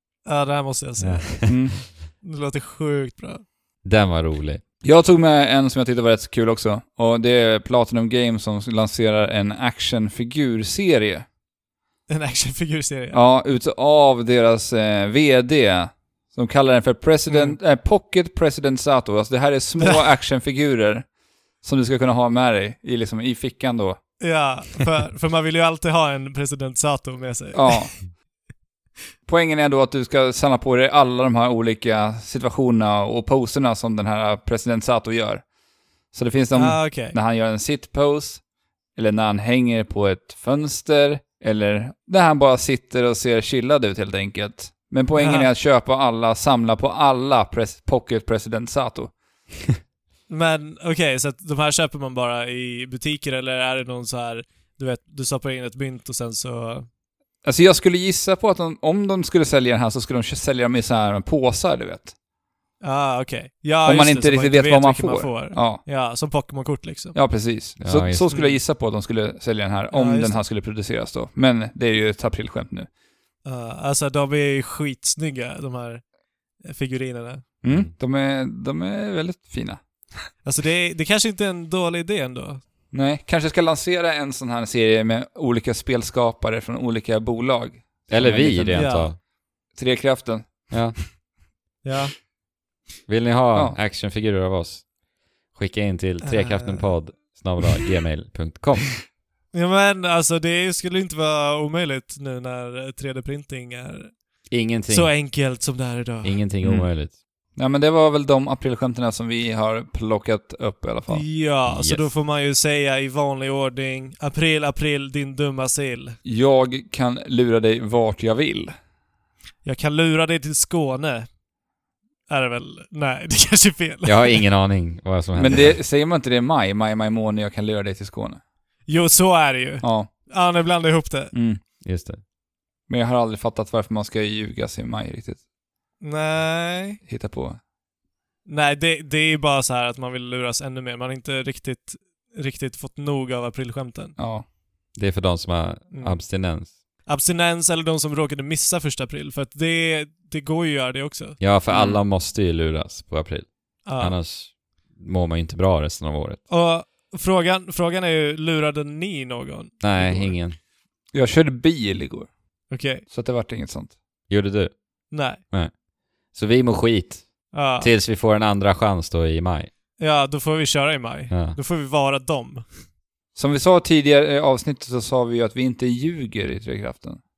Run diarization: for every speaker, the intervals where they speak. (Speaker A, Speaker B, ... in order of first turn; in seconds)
Speaker A: 0.2-1.5, 2.2-3.4, 12.1-13.2, 17.3-17.6, 24.2-27.9, 36.5-37.1, 45.1-45.5, 50.3-56.9, 62.8-67.2, 68.3-68.6, 69.9-70.4, 73.4-76.0, 76.6-77.4, 80.4-82.6, 88.7-89.1, 91.8-92.1, 96.2-96.9, 99.5-104.1, 104.9-106.4, 111.1-116.2, 119.6-121.3, 122.3-124.4, 128.9-131.3, 136.0-137.0, 138.4-144.2, 145.9-146.2, 147.1-151.4, 153.8-154.1, 156.5-160.3, 162.7-163.0, 165.1-165.4, 167.5-167.9, 170.0-172.7
Speaker B: 1.0-1.6, 3.8-4.6, 67.8-68.3, 88.1-89.2, 90.7-91.0, 93.1-94.8, 95.5-99.0, 104.5-105.1, 106.2-107.1, 111.7-112.1, 124.0-125.8, 131.8-132.2, 144.9-146.7, 151.4-156.4, 159.8-160.6, 164.3-164.7, 166.3-169.7, 171.3-171.6
Speaker C: 1.5-1.8, 4.8-11.2, 13.1-21.1, 21.6-24.0, 27.5-27.9, 29.3-35.4, 36.1-38.4, 38.9-49.1, 57.4-62.1, 63.8-65.8, 67.1-72.9, 77.6-79.8, 82.9-88.9, 89.7-90.8, 106.6-106.9, 107.6-111.3, 116.2-118.7, 125.3-128.4, 129.8-130.1, 131.3-131.6, 132.9-135.4, 137.0-137.6, 144.2-144.4, 151.7-152.0, 161.1-162.3, 163.1-163.9, 173.3-177.2